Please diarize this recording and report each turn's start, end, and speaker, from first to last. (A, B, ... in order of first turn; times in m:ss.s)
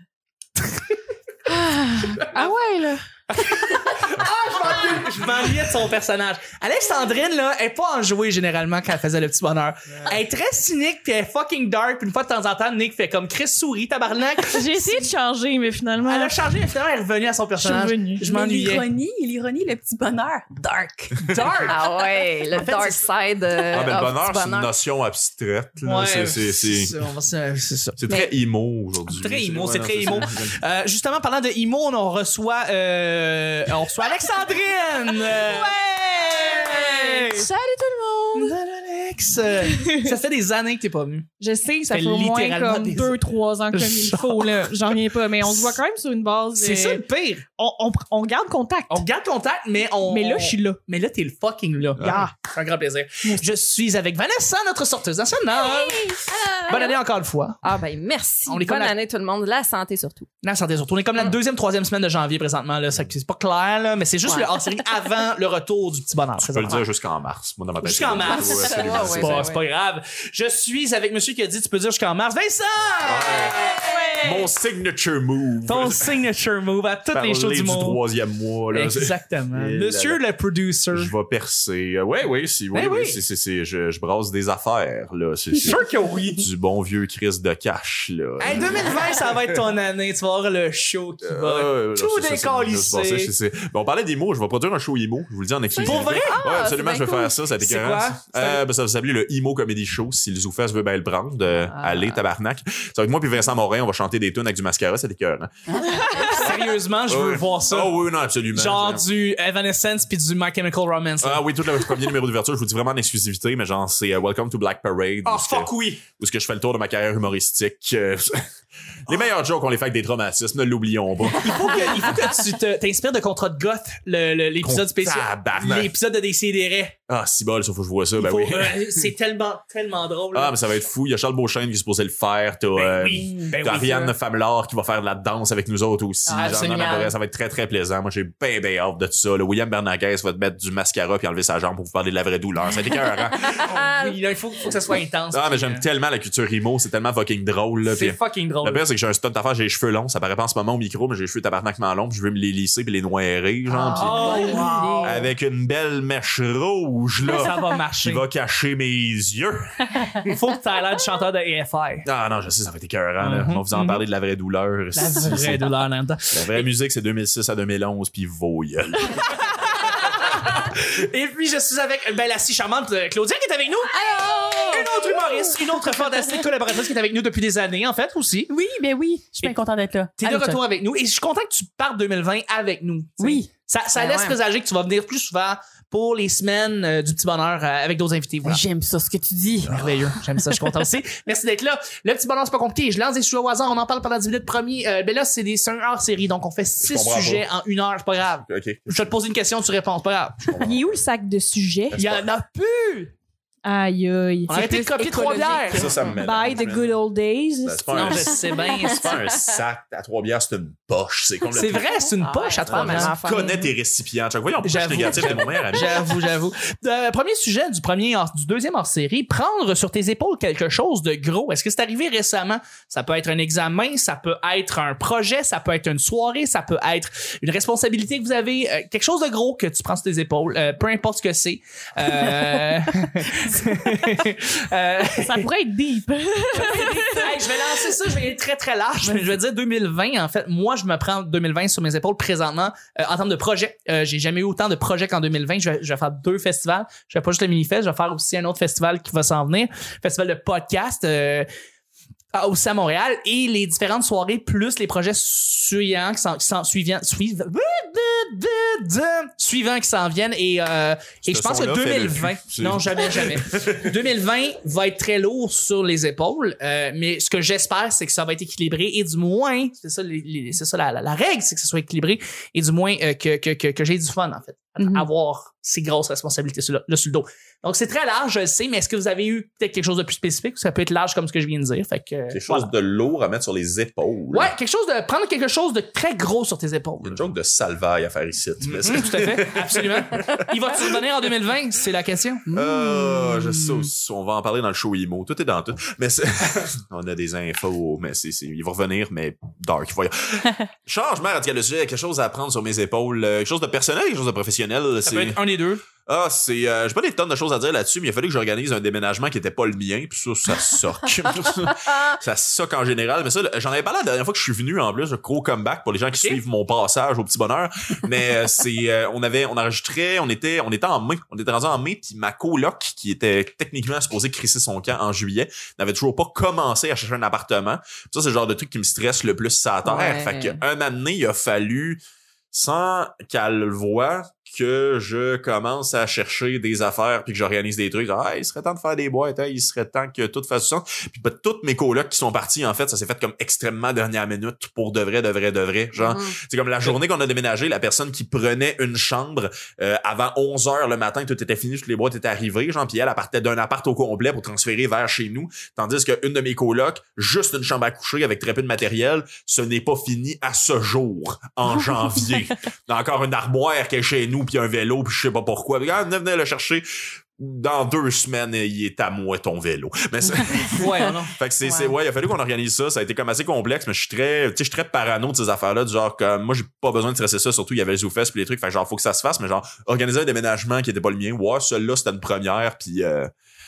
0:01.6-0:03.0 A
0:02.2-0:02.5 B
0:03.3-0:15.0 B
0:14.5-0:16.4 A
0:16.0-0:18.8 B
0:17.6-0:18.3 A
0:18.2-0:21.1 C
0:21.3-0:21.8 B
0:21.4-0:24.7 D
0:22.6-0:23.0 C
0:23.7-0:27.0 E
0:25.8-0:28.0 B
0:28.0-0:30.6 E
0:29.1-0:37.5 B
0:36.3-0:37.5 A
0:38.0-0:38.3 D
0:38.3-0:41.3 B
0:39.6-0:40.1 A
0:41.4-0:47.0 A
0:41.9-0:45.8 B
0:46.5-0:47.4 B
0:47.6-0:49.0 A
0:48.9-0:57.6 B
0:50.0-0:50.8 A
0:52.0-0:52.2 E
0:55.6-0:57.0 D
0:57.6-1:00.3 D
0:58.5-0:58.9 B
1:00.4-1:06.8 B
1:04.2-1:04.5 D
1:06.5-1:09.5 E
1:07.8-1:14.2 B
1:08.2-1:09.6 D
1:13.0-1:16.1 E
1:15.7-1:18.0 B
1:17.1-1:20.2 E
1:18.7-1:21.1 B
1:20.9-1:25.8 E
1:22.7-1:23.2 B
1:25.6-1:26.5 B
1:26.4-1:28.9 E
1:28.4-1:33.3 B
1:31.2-1:45.5 E
1:35.7-1:37.4 D
1:35.8-1:36.4 B
1:37.6-1:38.6 B
1:41.6-1:42.2 D
1:45.9-1:47.9 B
1:47.1-1:49.0 E
1:48.5-1:51.4 B
1:51.2-1:58.5 E
1:55.2-1:56.0 B
1:59.1-2:01.7 E
2:01.4-2:07.0 B
2:04.6-2:05.9 E
2:07.1-2:09.0 E
2:08.2-2:10.6 B
2:10.3-2:23.7 E
2:12.7-2:14.1 B
2:13.2-2:13.5 C
2:16.3-2:17.1 D
2:16.3-2:17.1 B
2:23.6-2:24.2 D
2:23.6-2:25.8 B
2:25.3-2:39.7 E
2:27.9-2:28.8 B
2:33.8-2:35.1 B
2:34.0-2:35.3 C
2:37.3-2:38.2 B
2:40.2-2:42.0 B
2:42.0-2:45.7 E
2:43.2-2:44.0 B
2:44.9-2:46.7 B
2:46.3-2:49.6 E
2:49.2-2:58.5 B
2:53.9-2:54.9 D
2:58.5-3:00.6 C
3:00.2-3:08.6 B
3:03.2-3:03.5 C
3:04.0-3:04.4 D
3:08.4-3:10.0 C
3:09.7-3:20.5 B
3:16.8-3:17.5 E
3:18.5-3:19.1 E
3:20.5-3:21.0 E
3:20.6-3:22.1 A
3:21.9-3:22.2 E
3:22.0-3:23.1 B
3:23.6-3:28.4 A
3:24.5-3:25.9 B
3:25.7-3:27.0 E
3:27.6-3:31.9 E
3:27.9-3:29.1 B
3:31.5-3:33.2 B
3:31.7-3:33.6 D
3:32.7-3:36.1 E
3:32.9-3:33.7 A
3:34.6-3:55.5 B
3:53.4-3:54.1 C
3:55.2-3:57.9 A
3:56.6-4:11.5 B
4:12.3-4:42.7 B
4:21.3-4:23.9 E
4:34.8-4:35.1 C
4:42.3-4:44.5 E
4:44.3-4:47.2 B
4:47.0-4:50.9 E
4:48.6-4:52.4 B
4:52.5-4:53.9 C
4:52.5-5:05.4 E
5:05.0-5:05.8 B
5:06.1-5:32.0 E
5:29.8-5:30.6 D
5:32.5-6:06.9 E
5:45.9-5:46.4 D
6:07.4-6:23.3 E
6:10.8-6:11.3 B
6:11.6-6:11.9 D